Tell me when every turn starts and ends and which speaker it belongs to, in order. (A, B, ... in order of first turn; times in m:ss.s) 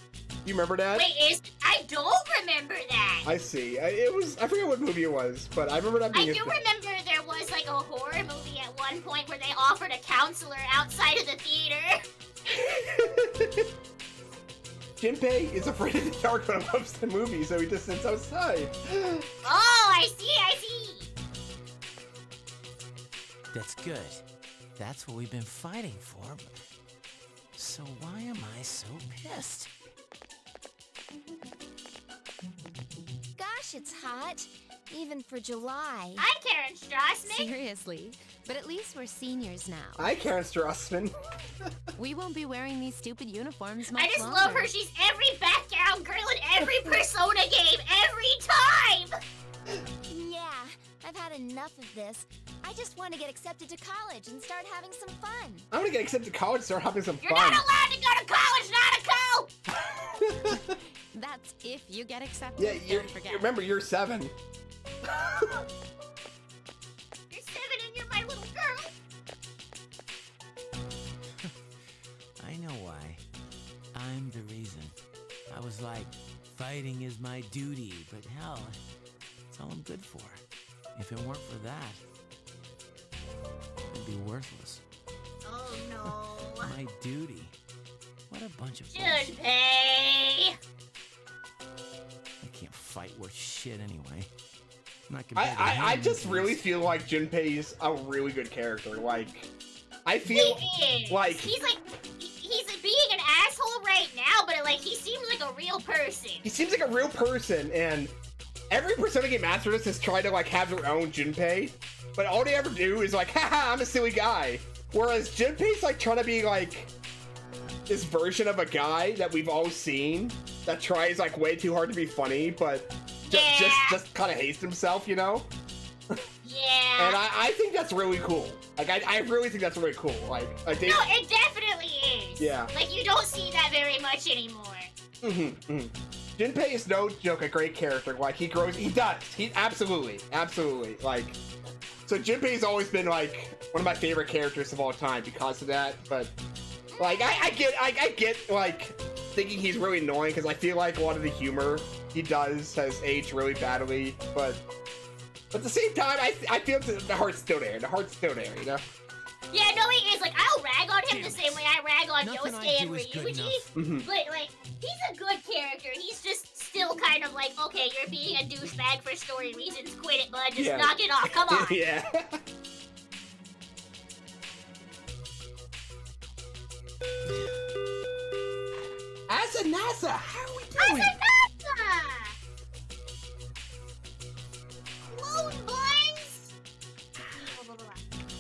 0:00.4-0:01.1 A
0:00.9-0:03.3 B
0:03.2-0:06.6 A
0:06.1-0:12.0 B
0:12.5-0:13.7 A
0:15.0-0:19.4 A
0:19.4-0:21.1 B
0:23.5-0:24.2 C
0:24.8-0:26.5 C
0:27.6-0:29.7 C
0:33.4-0:36.2 D
0:36.2-0:37.5 B
0:37.3-0:40.1 E
0:40.0-0:41.1 A
0:42.0-0:44.7 E
0:44.0-0:49.2 B
0:50.1-0:55.7 D
0:55.7-0:57.7 A
0:57.2-0:59.5 B
0:59.9-1:00.8 A
1:01.1-1:03.5 E
1:02.6-1:04.4 A
1:05.1-1:05.6 A
1:07.3-1:08.9 B
1:12.4-1:13.2 C
1:13.9-1:15.0 C
1:15.5-1:18.8 C
1:19.5-1:20.4 C
1:21.0-1:22.0 C
1:23.9-1:24.8 C
1:25.4-1:26.7 B
1:26.0-1:27.6 C
1:28.3-1:29.4 C
1:28.9-1:30.6 B
1:32.4-1:34.3 C
1:35.1-1:36.9 C
1:35.4-1:39.5 A
1:40.0-1:41.6 A
1:40.3-1:46.4 B
1:46.4-1:48.1 A
1:48.7-1:56.9 A
1:57.9-2:05.5 A
2:03.3-2:04.0 B
2:06.4-2:07.2 B
2:07.0-2:11.1 A
2:10.8-2:14.9 B
2:12.4-2:12.7 A
2:15.2-2:21.4 A
2:22.1-2:26.3 A
2:26.9-2:27.4 B
2:27.0-2:34.6 A
2:35.5-2:38.8 A
2:39.5-2:51.8 B
2:41.1-2:41.6 C
2:42.2-2:43.7 C
2:43.8-2:44.1 A
2:50.6-2:52.4 A
2:59.3-3:01.2 A
3:00.8-3:02.4 B
3:05.1-3:06.5 B
3:07.3-3:08.0 B